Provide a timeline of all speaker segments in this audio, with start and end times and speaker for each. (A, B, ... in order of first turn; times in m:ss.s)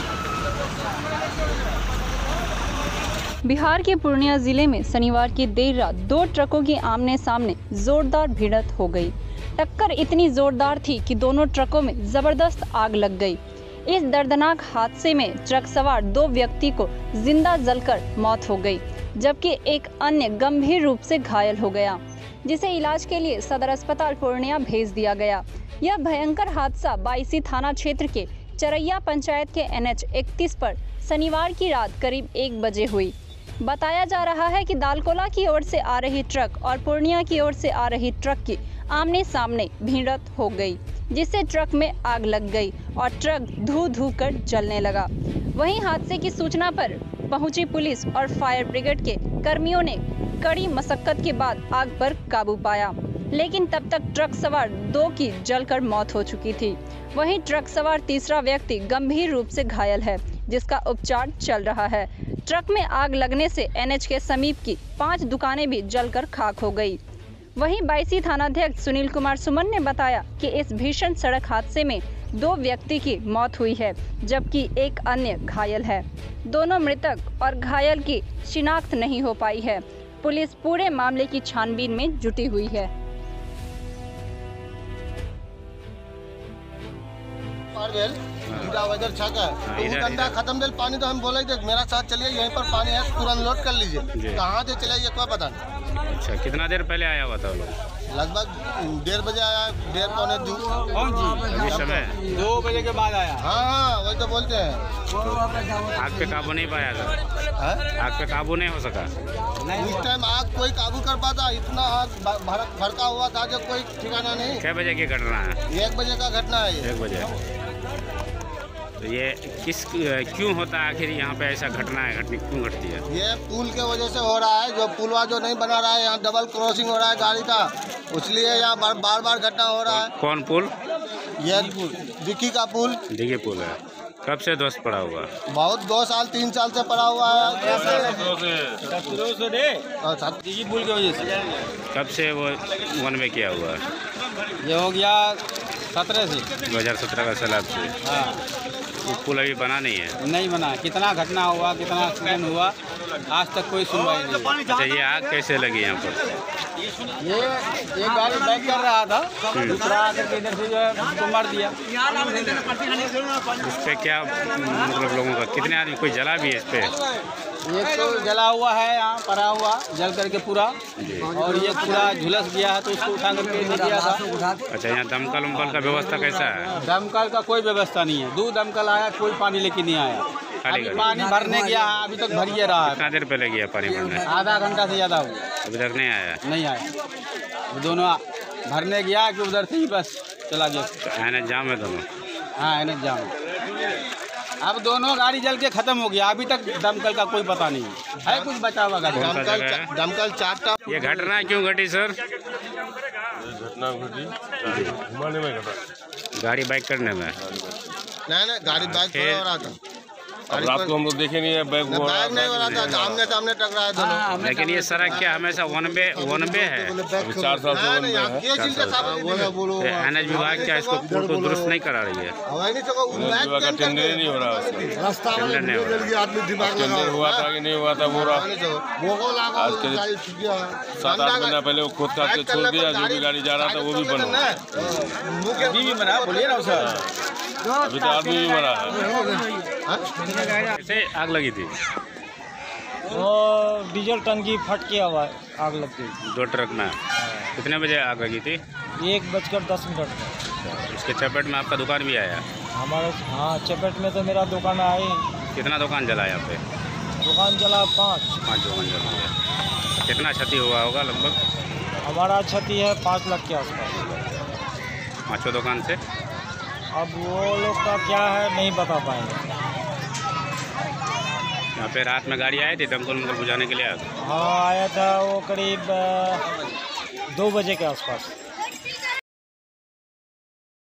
0:03.4-1:07.0 A
1:07.6-1:22.9 A
1:27.7-1:35.6 B
1:28.5-1:28.8 C
1:29.7-1:30.4 C
1:34.2-1:34.4 C
1:36.0-1:37.7 C
1:38.1-1:40.8 B
1:40.9-1:41.5 D
1:41.5-1:42.2 C
1:41.6-1:42.1 B
1:42.2-1:43.4 D
1:43.4-1:44.9 B
1:45.2-1:47.2 C
1:47.6-1:47.8 B
1:48.0-1:49.1 C
1:49.6-1:49.9 D
1:49.7-1:54.6 B
1:54.6-1:55.6 C
1:55.7-1:56.9 B
1:56.8-1:57.3 C
1:59.0-2:03.0 C
2:03.1-2:10.1 B
2:09.9-2:10.7 C
2:11.4-2:13.0 B
2:11.5-2:11.9 D
2:13.1-2:15.3 C
2:15.5-2:18.2 B
2:17.7-2:18.9 E
2:19.1-2:19.8 D
2:20.0-2:20.4 B
2:20.4-2:21.3 D
2:21.9-2:23.8 C
2:24.6-2:25.4 D
2:25.9-2:26.5 D
2:26.6-2:28.0 C
2:28.0-2:28.4 D
2:29.0-2:30.2 C
2:30.2-2:32.7 D
2:33.3-2:34.6 D
2:34.7-2:36.2 C
2:37.2-2:42.7 D
2:39.5-2:39.8 C
2:43.6-2:46.9 C
2:47.6-2:50.8 D
2:51.0-2:51.4 C
2:51.3-2:54.3 D
2:54.7-2:56.8 C
2:56.8-3:03.1 D
3:00.6-3:01.1 C
3:02.8-3:04.2 C
3:04.2-3:05.4 D
3:05.6-3:06.4 C
3:06.4-3:06.9 D
3:07.7-3:10.9 D
3:11.0-3:12.0 C
3:12.6-3:13.3 D
3:14.6-3:19.3 D
3:19.1-3:20.8 B
3:19.1-3:19.9 C
3:20.9-3:22.1 C
3:23.3-3:25.8 E
3:24.7-3:25.0 C
3:26.4-3:27.4 C
3:28.3-3:29.8 B
3:28.7-3:29.4 C
3:30.5-3:30.9 B
3:30.5-3:33.1 E
3:31.8-3:34.4 B
3:32.5-3:33.2 C
3:34.3-3:37.0 C
3:35.0-3:41.7 B
3:37.2-3:38.5 E
3:38.5-3:39.2 C
3:39.2-3:39.5 E
3:39.8-3:42.3 C
3:42.4-3:51.6 B
3:43.1-3:44.9 E
3:45.3-3:46.2 C
3:46.6-3:48.5 E
3:49.6-3:50.1 E
3:51.0-3:55.0 E
3:52.1-3:56.8 B
3:55.6-3:57.0 D
3:56.8-3:57.0 E
3:57.8-3:59.2 E
3:57.9-3:59.4 D
3:59.8-4:00.1 B
4:00.5-4:01.7 C
4:03.1-4:06.1 F
4:06.2-4:07.0 C
4:07.2-4:07.5 F
4:07.6-4:08.6 C
4:09.0-4:10.3 F
4:10.5-4:12.4 C
4:12.7-4:15.3 F
4:15.5-4:16.6 C
4:17.2-4:18.3 F
4:18.4-4:19.3 C
4:20.0-4:21.4 C
4:22.0-4:24.0 F
4:23.9-4:24.4 C
4:25.3-4:26.0 C
4:26.9-4:29.4 F
4:31.8-4:34.1 C
4:34.2-4:36.4 F
4:37.3-4:38.3 F